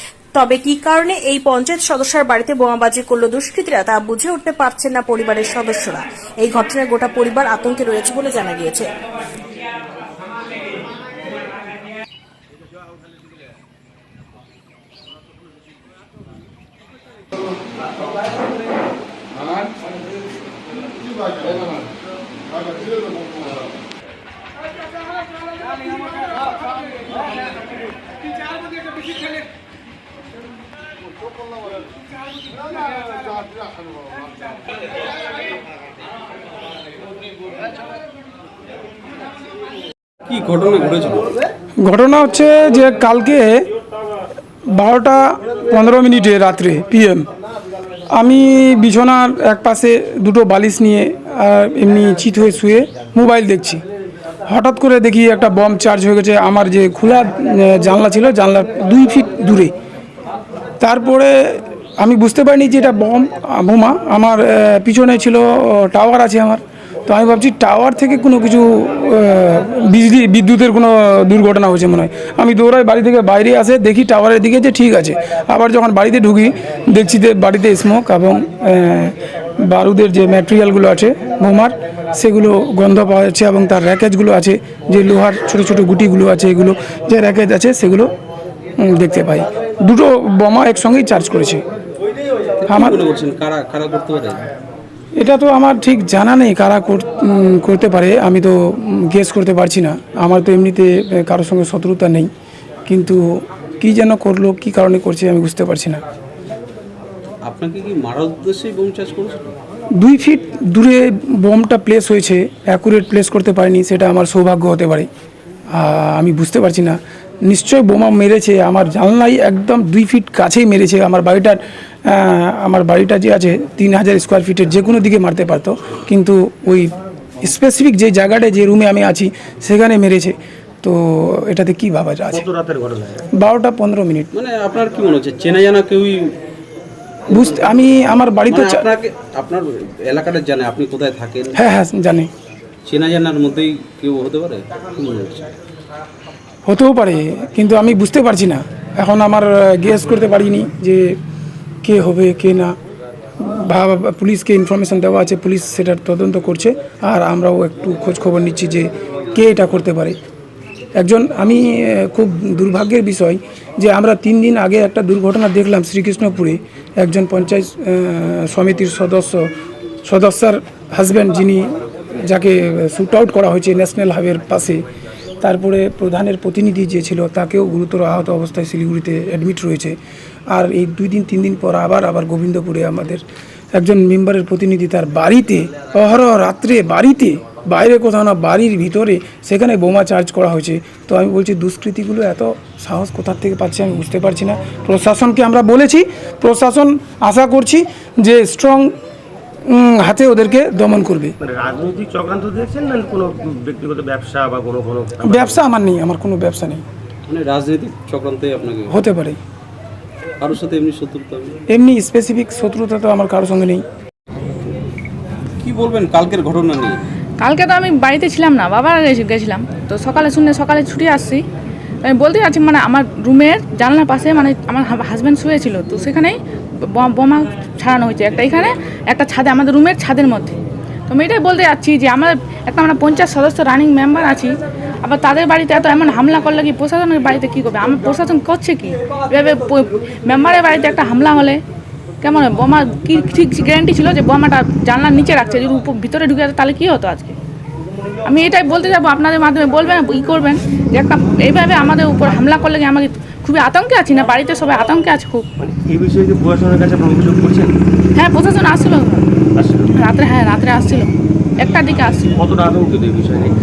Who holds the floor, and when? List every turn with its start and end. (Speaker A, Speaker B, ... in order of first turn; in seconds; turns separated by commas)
Speaker A: 0.3-8.9, Speaker B: 40.2-41.3, Speaker C: 41.8-43.6, Speaker C: 44.7-47.2, Speaker C: 48.1-53.8, Speaker C: 54.5-59.7, Speaker C: 60.8-88.1, Speaker C: 88.8-91.6, Speaker B: 92.6-94.4, Speaker C: 92.7-93.0, Speaker C: 95.2-102.3, Speaker C: 102.9-106.0, Speaker B: 107.4-109.5, Speaker C: 110.0-115.1, Speaker C: 115.7-132.4, Speaker D: 132.3-133.2, Speaker C: 133.3-134.3, Speaker B: 134.3-136.3, Speaker C: 137.3-138.8, Speaker B: 137.3-141.5, Speaker C: 141.6-142.3, Speaker B: 142.8-145.5, Speaker C: 146.7-151.1, Speaker C: 151.8-152.7, Speaker C: 153.4-160.2, Speaker C: 161.0-169.4, Speaker C: 170.0-174.8, Speaker C: 175.4-179.9, Speaker C: 180.5-198.9, Speaker C: 199.7-201.3, Speaker D: 201.4-205.6, Speaker C: 205.2-206.8, Speaker B: 207.3-208.9, Speaker C: 208.9-209.4, Speaker B: 210.4-211.6, Speaker C: 211.7-213.8, Speaker B: 215.6-217.0, Speaker E: 217.4-221.4, Speaker E: 222.0-230.6, Speaker E: 231.1-241.6, Speaker E: 242.2-247.3, Speaker E: 248.2-255.4, Speaker D: 255.6-257.8, Speaker E: 258.1-259.3, Speaker D: 259.5-259.9, Speaker E: 259.9-262.3, Speaker D: 262.3-263.5